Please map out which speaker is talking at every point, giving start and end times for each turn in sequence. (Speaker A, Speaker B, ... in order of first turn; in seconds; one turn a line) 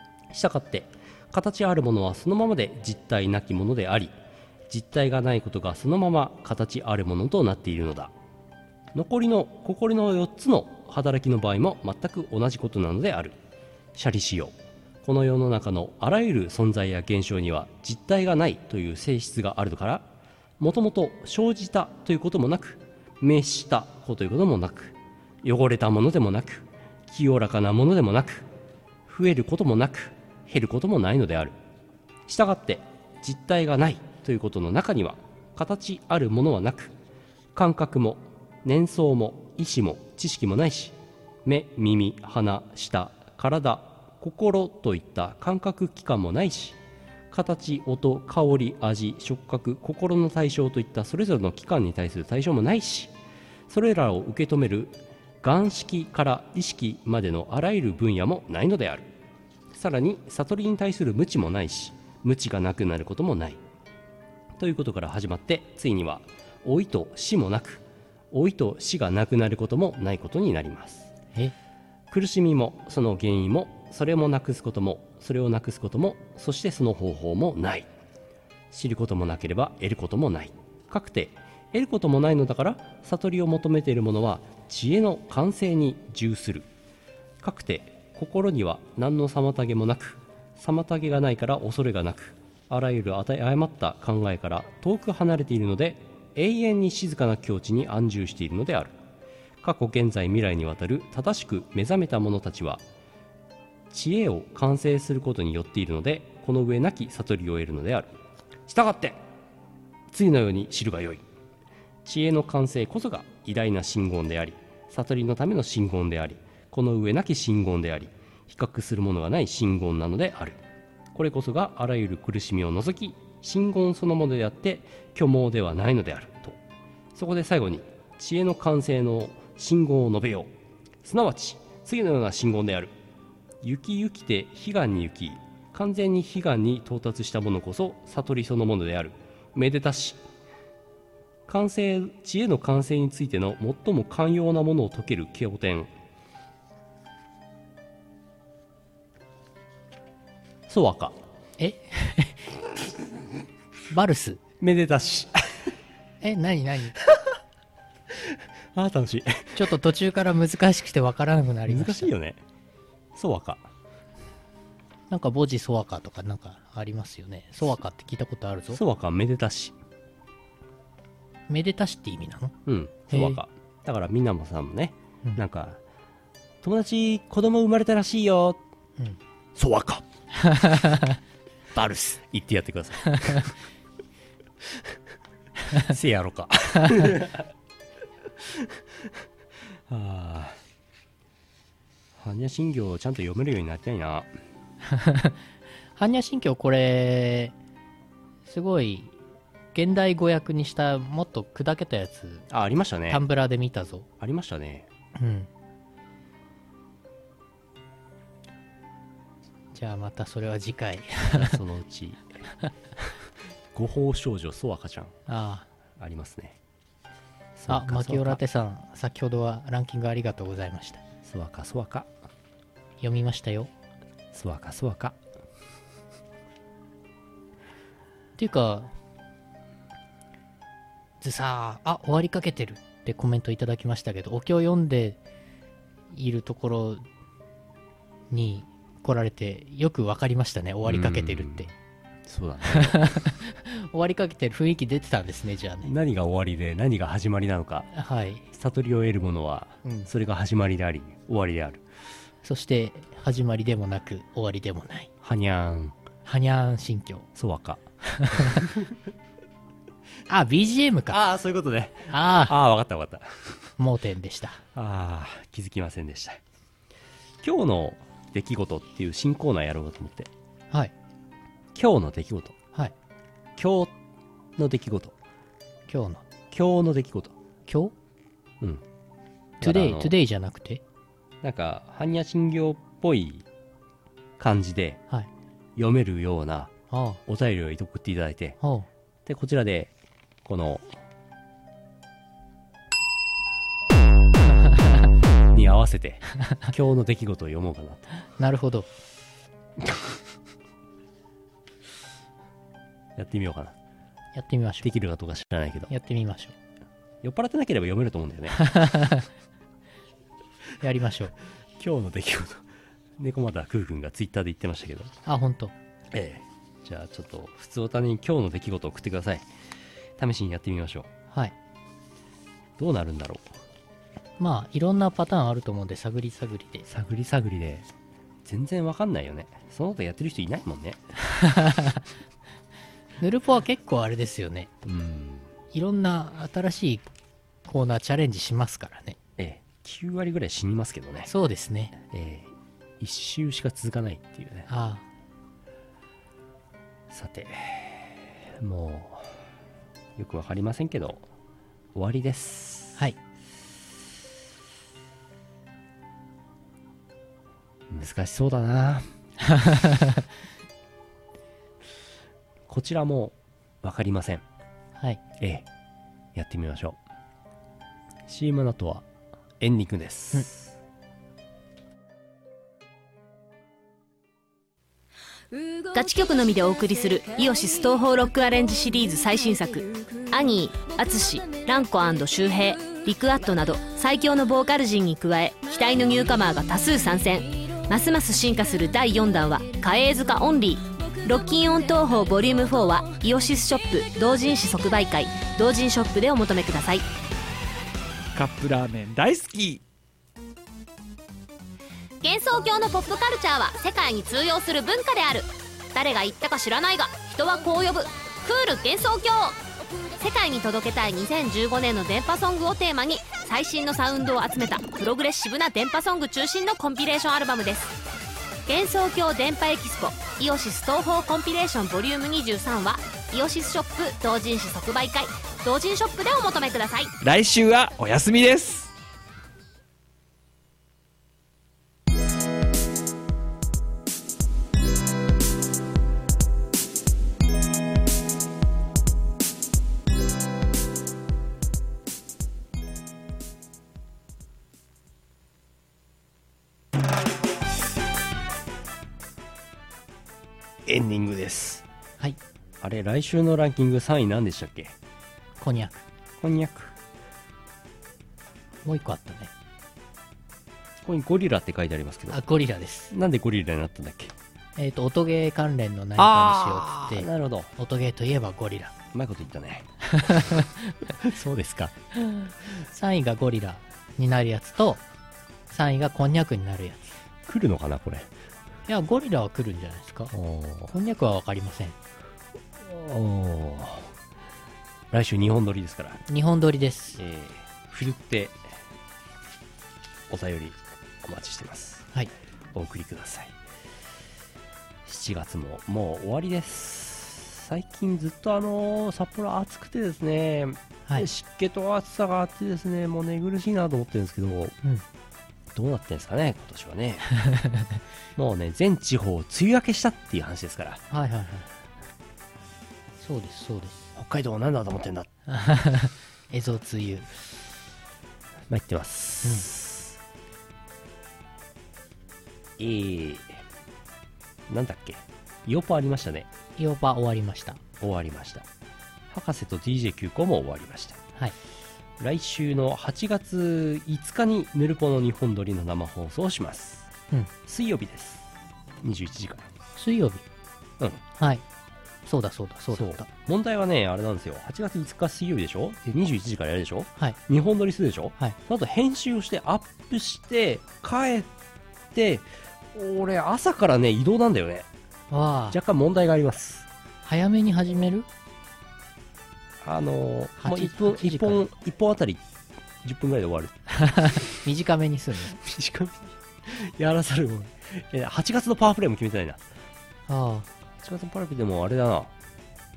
Speaker A: 0.3-4.1
Speaker A: 4.7-8.1
Speaker A: 8.9-13.4
Speaker A: 13.9-28.5
Speaker A: 29.1-31.6
Speaker A: 32.3-36.9
Speaker A: 37.5-46.8
Speaker A: 47.3-53.1
Speaker A: 53.7-59.1
Speaker A: 59.7-63.6
Speaker A: 64.6-71.1
Speaker A: 72.1-77.9
Speaker A: 78.7-86.7
Speaker A: 87.4-99.0
Speaker A: 99.6-102.8
Speaker A: 103.9-108.2
Speaker A: 108.7-109.2
Speaker A: 110.1-111.2
Speaker A: 112.0-120.6
Speaker A: 121.1-126.6
Speaker A: 127.2-130.5
Speaker A: 131.0-132.9
Speaker A: 133.6-140.2
Speaker A: 141.5-145.9
Speaker A: 150.7-151.2
Speaker B: 151.6-152.5
Speaker B: 153.9-154.4
Speaker A: 154.6-155.6
Speaker B: 156.2-157.0
Speaker A: 158.3-159.7
Speaker B: 159.6-162.1
Speaker A: 161.7-162.4
Speaker A: 163.2-163.7
Speaker B: 165.1-168.8
Speaker A: 168.7-169.8
Speaker B: 171.5-172.6
Speaker A: 172.7-175.8
Speaker B: 173.1-173.4
Speaker A: 176.6-178.6
Speaker A: 179.6-180.1
Speaker B: 180.4-181.2
Speaker A: 181.7-183.6
Speaker A: 185.7-187.5
Speaker A: 189.9-190.6
Speaker A: 192.2-194.3
Speaker B: 194.8-195.4
Speaker B: 196.0-197.6
Speaker B: 198.5-199.2
Speaker B: 199.7-202.5
Speaker A: 202.5-203.2
Speaker B: 203.1-204.1
Speaker A: 204.2-204.9
Speaker B: 205.2-205.5
Speaker B: 209.7-211.6
Speaker A: 211.3-212.4
Speaker A: 213.7-215.2
Speaker B: 215.3-215.7
Speaker A: 216.0-216.6
Speaker A: 217.6-218.4
Speaker B: 217.7-221.0
Speaker A: 221.2-222.1
Speaker B: 223.0-223.7
Speaker A: 224.3-225.2
Speaker B: 228.4-228.9
Speaker B: 231.2-235.2
Speaker B: 236.1-237.0
Speaker B: 238.3-241.7
Speaker A: 240.8-241.7
Speaker A: 242.3-243.0
Speaker B: 242.7-245.9
Speaker A: 245.8-247.9
Speaker B: 247.9-248.4
Speaker A: 248.5-251.8
Speaker B: 249.8-250.1
Speaker B: 252.4-255.1
Speaker A: 255.2-256.0
Speaker B: 256.2-257.3
Speaker A: 257.4-258.8
Speaker B: 258.1-258.6
Speaker B: 260.3-261.2
Speaker A: 261.1-263.6
Speaker B: 262.1-262.6
Speaker B: 263.8-264.6
Speaker A: 264.8-266.4
Speaker A: 267.4-270.3
Speaker A: 271.8-272.6
Speaker A: 273.6-273.9
Speaker A: 274.6-275.1
Speaker B: 275.9-276.2
Speaker A: 276.5-277.4
Speaker B: 277.7-277.9
Speaker A: 279.6-280.1
Speaker B: 279.6-280.8
Speaker A: 281.4-283.5
Speaker A: 284.4-285.0
Speaker A: 285.8-286.7
Speaker B: 286.9-287.2
Speaker A: 287.3-288.6
Speaker B: 288.6-288.9
Speaker A: 289.3-289.9
Speaker A: 290.4-290.9
Speaker A: 295.5-298.1
Speaker B: 298.4-298.9
Speaker A: 299.8-300.1
Speaker A: 303.2-303.8
Speaker B: 304.3-304.9
Speaker A: 304.8-305.9
Speaker B: 305.9-306.6
Speaker A: 307.2-308.6
Speaker B: 308.6-309.3
Speaker B: 310.8-311.3
Speaker A: 311.8-312.6
Speaker A: 313.2-315.1
Speaker B: 315.3-315.7
Speaker A: 316.1-319.5
Speaker A: 320.2-321.1
Speaker A: 322.8-323.6
Speaker B: 324.4-326.9
Speaker A: 326.9-327.9
Speaker A: 328.4-331.0
Speaker B: 331.3-332.0
Speaker B: 333.2-334.7
Speaker A: 334.9-335.5
Speaker B: 335.7-337.1
Speaker B: 337.7-339.2
Speaker A: 339.4-341.3
Speaker B: 341.3-342.0
Speaker A: 342.0-344.7
Speaker B: 344.7-345.1
Speaker A: 347.1-349.3
Speaker A: 350.2-351.3
Speaker A: 351.9-353.0
Speaker A: 357.9-359.1
Speaker B: 359.5-360.3
Speaker A: 362.7-364.4
Speaker B: 365.0-365.2
Speaker A: 365.4-365.7
Speaker A: 366.4-367.0
Speaker A: 368.3-369.1
Speaker A: 369.6-370.7
Speaker C: 375.9-397.1
Speaker D: 398.4-399.8
Speaker C: 402.2-409.6
Speaker C: 410.2-418.0
Speaker C: 418.7-427.1
Speaker D: 427.2-428.9
Speaker A: 450.9-451.8
Speaker A: 452.8-455.0
Speaker B: 455.6-456.1
Speaker A: 456.4-457.0
Speaker B: 458.8-459.5
Speaker A: 461.0-462.4
Speaker B: 462.3-463.1
Speaker A: 463.1-464.3
Speaker B: 464.8-468.9
Speaker A: 466.2-467.7
Speaker A: 469.1-469.9
Speaker B: 470.1-471.0
Speaker A: 471.1-471.9
Speaker B: 472.1-475.0
Speaker B: 475.7-477.2
Speaker A: 477.5-478.3
Speaker B: 478.9-480.3
Speaker A: 480.3-480.9
Speaker B: 480.9-482.0
Speaker A: 482.8-484.1
Speaker A: 485.1-486.2
Speaker B: 486.3-487.2
Speaker A: 487.2-488.6
Speaker A: 490.3-492.1
Speaker A: 492.7-493.6
Speaker A: 495.1-504.8
Speaker A: 505.8-507.3
Speaker B: 507.4-508.0
Speaker A: 508.4-511.0
Speaker B: 511.1-511.7
Speaker B: 513.2-514.1
Speaker A: 514.1-515.3
Speaker B: 515.5-517.3
Speaker A: 518.7-520.2
Speaker A: 522.8-523.6
Speaker A: 524.7-526.5
Speaker B: 526.8-527.8
Speaker A: 528.0-528.7
Speaker A: 529.3-531.2
Speaker A: 532.2-537.1
Speaker A: 537.7-538.5
Speaker A: 539.0-539.7
Speaker B: 540.0-540.4
Speaker B: 541.4-541.6
Speaker B: 542.2-543.3
Speaker A: 542.9-551.5
Speaker A: 552.1-554.9
Speaker B: 555.3-555.8
Speaker A: 555.7-556.9
Speaker B: 557.2-558.3
Speaker A: 559.8-562.4
Speaker B: 560.6-561.7
Speaker A: 563.0-564.5
Speaker B: 564.0-565.6
Speaker A: 565.6-569.6
Speaker B: 570.3-570.7
Speaker A: 571.0-572.3